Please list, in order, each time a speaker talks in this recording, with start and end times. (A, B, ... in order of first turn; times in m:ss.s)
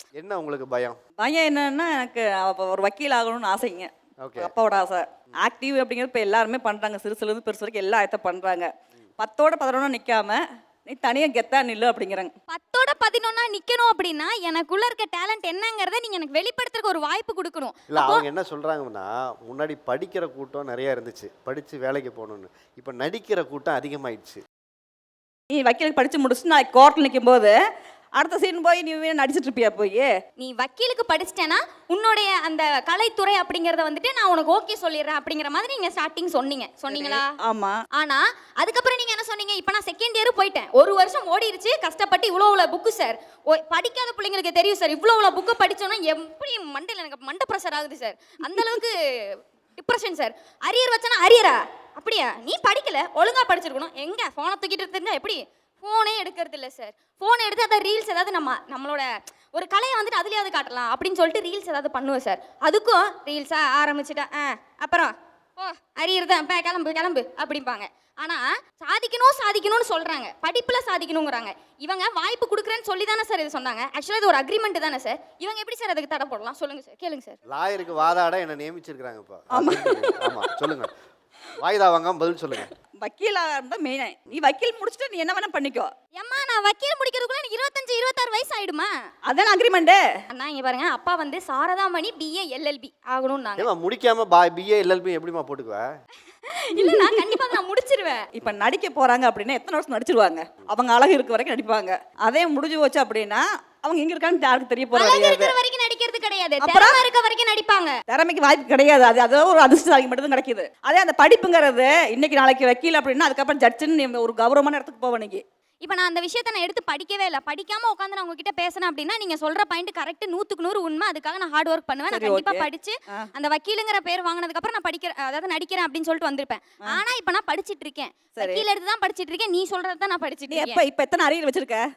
0:00.2-0:01.0 A
0:01.2-0:12.3 B
0:04.2-0:04.5 A
0:12.5-0:18.2 C
0:17.9-0:24.4 A
0:25.5-0:27.6 B
0:28.2-0:30.1 B
0:30.4-0:37.3 C
0:36.9-0:37.8 B
0:37.9-1:17.4 C
1:17.4-1:20.9 A
1:19.5-1:20.6 B
1:21.6-1:22.7 A
1:22.9-1:25.9 B
1:26.2-1:28.9 C
1:29.2-1:30.0 B
1:30.3-1:33.7 C
1:33.6-1:35.9 A
1:36.5-1:38.3 C
1:36.8-1:37.5 B
1:38.4-1:45.5 B
1:44.9-1:48.0 C
1:46.6-1:47.0 B
1:48.1-1:55.4 B
1:55.8-2:10.8 C
2:02.1-2:03.3 B
2:08.3-2:08.6 B
2:10.5-2:11.8 B